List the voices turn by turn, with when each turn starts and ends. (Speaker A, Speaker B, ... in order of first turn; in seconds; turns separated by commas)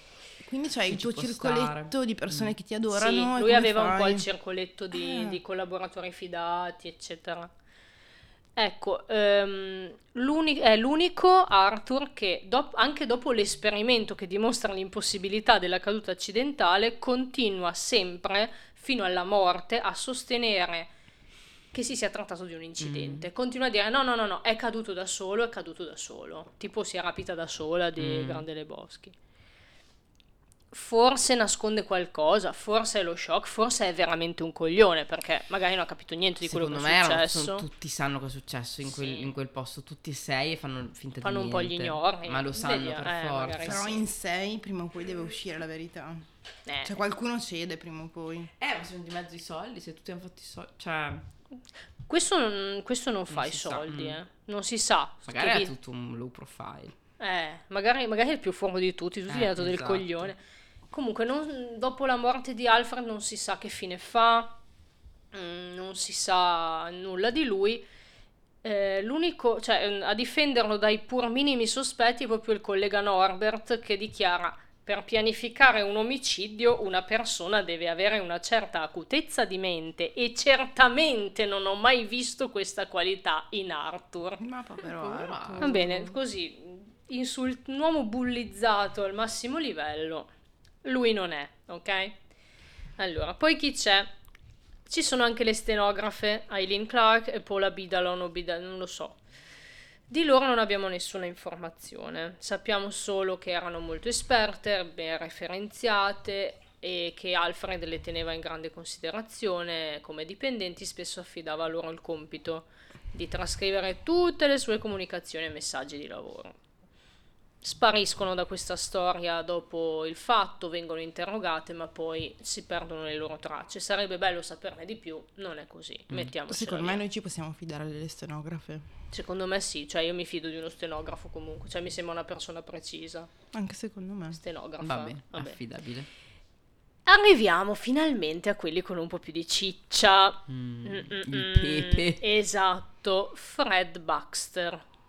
Speaker A: 0.4-4.3, Speaker B: 0.9-2.5, Speaker C: 2.9-7.5, Speaker A: 4.9-5.4, Speaker C: 8.6-20.9, Speaker C: 21.7-29.1, Speaker B: 22.8-23.3, Speaker B: 28.0-28.4, Speaker C: 30.7-37.6, Speaker B: 36.4-43.9, Speaker C: 38.9-39.3, Speaker C: 41.2-44.0, Speaker A: 43.6-46.3, Speaker C: 46.7-47.0, Speaker A: 46.8-48.5, Speaker B: 48.6-51.3, Speaker C: 52.1-55.7, Speaker B: 53.3-54.2, Speaker B: 55.2-57.0, Speaker C: 57.2-60.4, Speaker B: 59.3-60.3, Speaker C: 60.9-64.6, Speaker C: 65.3-67.9, Speaker C: 68.6-84.4, Speaker A: 84.4-86.2, Speaker B: 84.8-85.8, Speaker C: 85.6-90.3, Speaker C: 90.8-92.2, Speaker C: 93.0-94.1, Speaker C: 94.9-99.2, Speaker C: 100.1-116.6, Speaker C: 117.6-127.0, Speaker A: 126.5-128.9, Speaker C: 129.1-133.3, Speaker A: 133.5-134.4, Speaker C: 134.3-135.6, Speaker B: 134.8-136.1, Speaker C: 137.1-144.8, Speaker B: 140.5-142.2